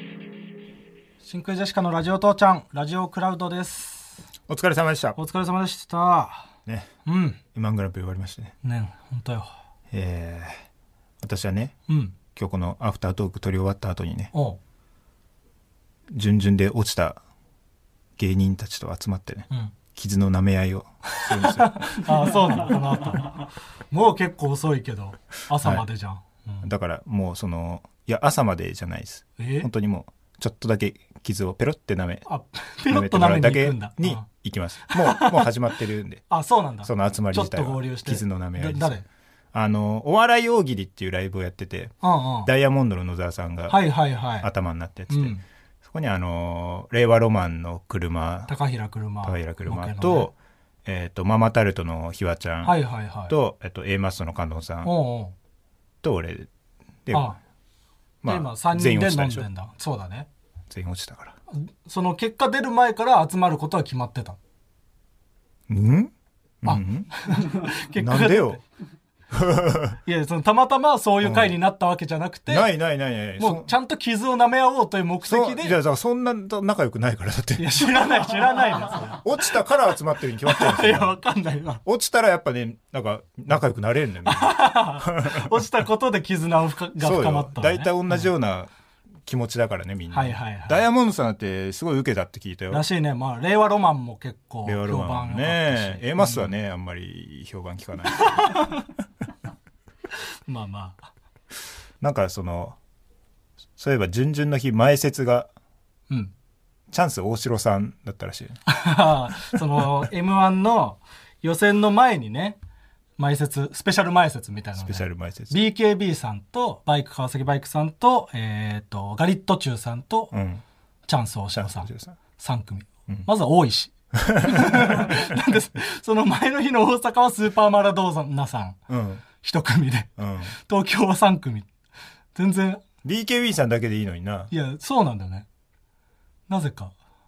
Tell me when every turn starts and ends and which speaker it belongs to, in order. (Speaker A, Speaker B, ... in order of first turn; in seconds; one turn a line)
Speaker A: 1.2-4.2
Speaker B: 4.5-5.2
Speaker A: 5.2-6.5
Speaker A: 7.0-7.4
Speaker B: 7.5-8.5
Speaker A: 8.6-9.5
Speaker B: 9.9-10.6
Speaker B: 11.2-11.8
Speaker A: 11.9-12.1
Speaker B: 12.3-14.3
Speaker A: 14.3-14.6
Speaker B: 16.1-17.2
Speaker B: 18.2-22.1
Speaker A: 21.1-26.7
Speaker B: 26.6-32.2
Speaker A: 29.4-29.7
Speaker A: 32.2-34.3
Speaker B: 32.9-36.2
Speaker A: 34.8-35.5
Speaker A: 36.3-39.0
Speaker B: 36.8-43.8
Speaker A: 42.0-42.5
Speaker A: 43.7-44.5
Speaker B: 44.4-48.5
Speaker A: 45.1-45.4
Speaker A: 48.5-50.3
Speaker B: 49.2-50.3
Speaker B: 50.8-54.9
Speaker A: 52.6-53.3
Speaker A: 54.8-55.3
Speaker B: 56.0-56.5
Speaker B: 57.0-57.3
Speaker A: 57.1-57.4
Speaker B: 58.2-59.5
Speaker A: 58.2-60.3
Speaker B: 60.7-61.3
Speaker A: 61.5-64.4
Speaker B: 65.7-68.6
Speaker A: 66.6-68.6
Speaker B: 69.3-70.0
Speaker A: 70.0-72.7
Speaker B: 71.2-71.5
Speaker B: 72.5-73.7
Speaker A: 73.4-75.8
Speaker B: 75.2-78.1
Speaker A: 77.6-79.2
Speaker B: 79.2-81.2
Speaker A: 80.4-81.8
Speaker B: 81.8-85.6
Speaker A: 84.2-88.3
Speaker B: 87.0-88.7
Speaker B: 89.2-92.8
Speaker A: 90.1-90.8
Speaker A: 92.7-96.5
Speaker B: 94.6-98.6
Speaker A: 98.2-98.8
Speaker A: 100.5-101.1
Speaker B: 102.0-102.8
Speaker B: 103.8-105.5
Speaker B: 106.9-108.6
Speaker A: 108.7-112.6
Speaker A: 113.2-120.3
Speaker B: 114.8-115.5
Speaker B: 120.3-120.6
Speaker A: 121.1-128.8
Speaker B: 121.5-122.2
Speaker B: 124.2-125.3
Speaker B: 128.9-129.2
Speaker A: 129.4-131.7
Speaker B: 130.2-130.5
Speaker A: 132.3-132.8
Speaker B: 133.0-134.5
Speaker A: 134.5-135.4
Speaker A: 136.5-136.9